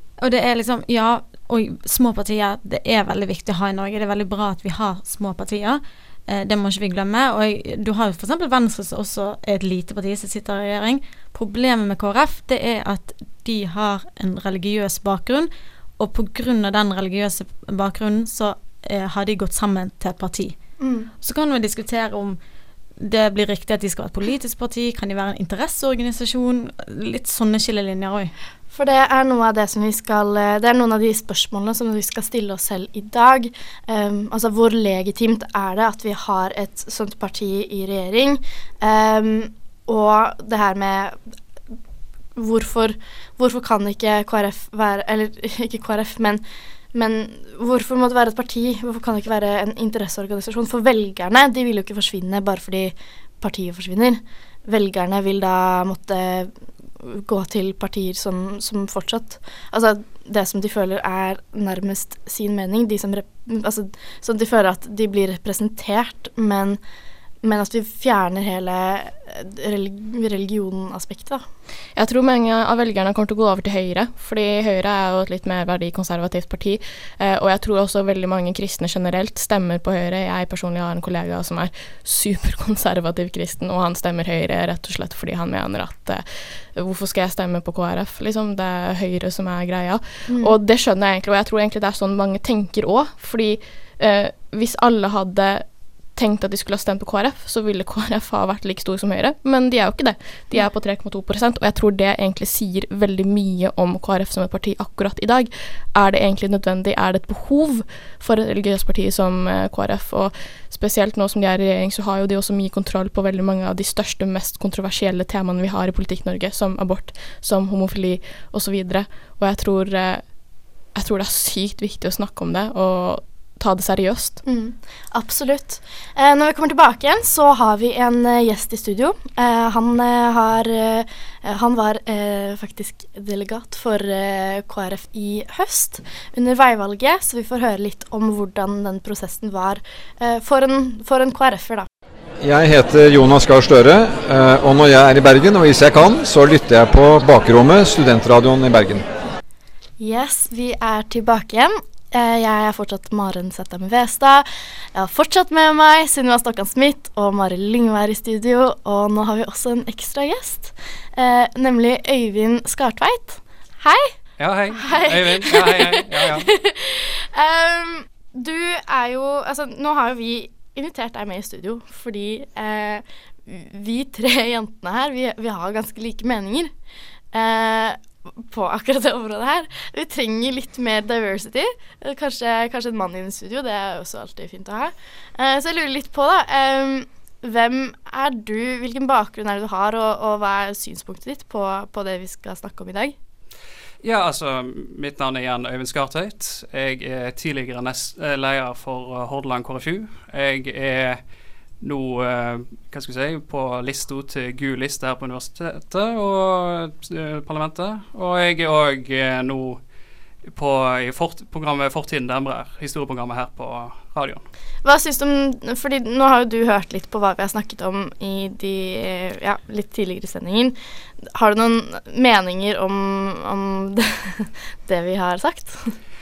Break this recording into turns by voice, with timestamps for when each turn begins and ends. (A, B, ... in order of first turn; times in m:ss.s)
0:00.2-0:20.6 A
0:20.8-0:21.1 B
0:21.2-0:22.4 A
0:23.0-0:28.3 A
0:28.7-0:41.2 B
0:42.4-1:06.8 B
1:07.4-1:11.4 B
1:12.0-2:00.3 C
1:30.3-1:30.6 B
2:00.9-2:04.4 C
2:04.4-2:21.9 B
2:22.4-2:29.0 D
2:30.0-2:44.1 B
2:44.4-2:46.5 E
2:44.7-2:56.7 B
2:57.3-3:13.1 B
3:14.0-3:21.2 E
3:21.8-3:29.8 E
3:30.5-3:34.4 E
3:34.8-3:45.9 B